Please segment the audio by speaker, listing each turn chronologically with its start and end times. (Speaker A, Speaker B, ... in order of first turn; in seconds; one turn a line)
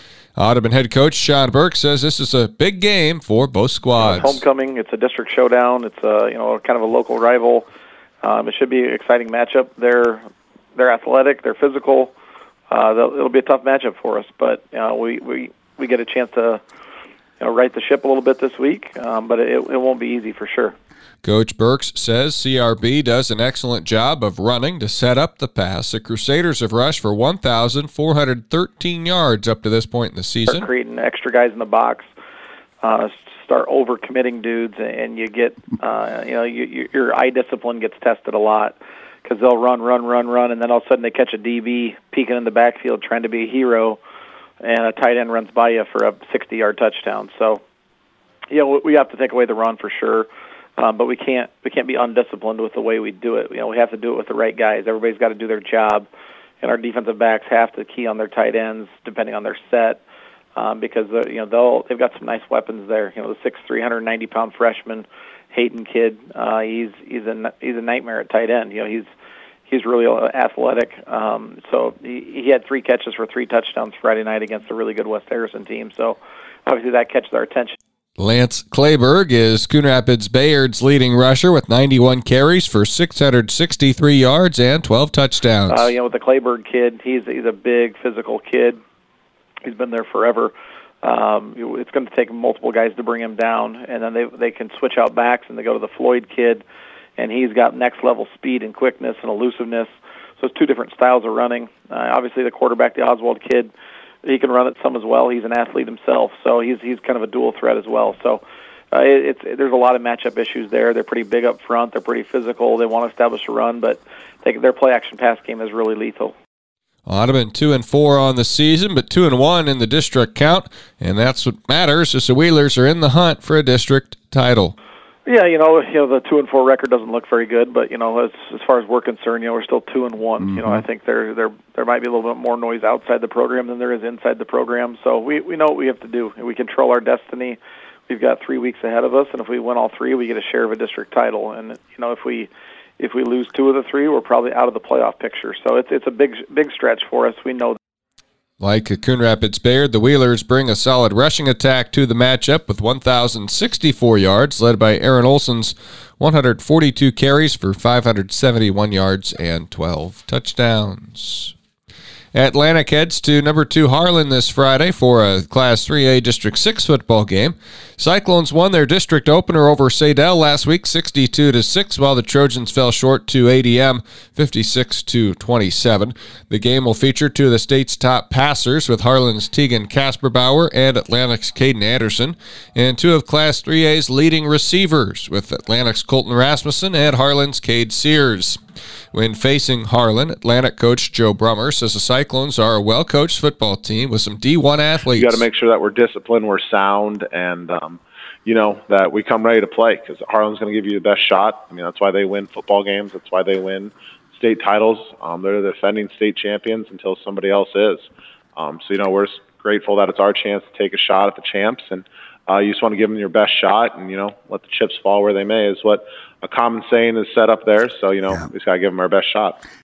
Speaker A: 0.4-4.4
Speaker B: 4.0-7.7
Speaker B: 8.2-10.2
Speaker B: 10.8-12.1
Speaker B: 12.7-16.6
Speaker B: 17.4-20.8
Speaker A: 21.2-30.7
Speaker B: 30.5-32.1
Speaker B: 32.8-44.0
Speaker B: 44.6-47.6
Speaker B: 48.5-56.1
Speaker B: 56.6-60.0
Speaker B: 60.6-69.1
Speaker B: 69.7-77.8
Speaker A: 78.2-86.0
Speaker B: 85.7-88.8
Speaker B: 89.7-90.5
Speaker B: 91.0-96.6
Speaker B: 97.2-103.7
Speaker B: 104.2-116.3
Speaker A: 117.1-124.8
Speaker B: 125.3-147.8
Speaker A: 148.6-161.5
Speaker A: 162.3-188.6
Speaker A: 189.1-195.4
Speaker C: 195.1-219.6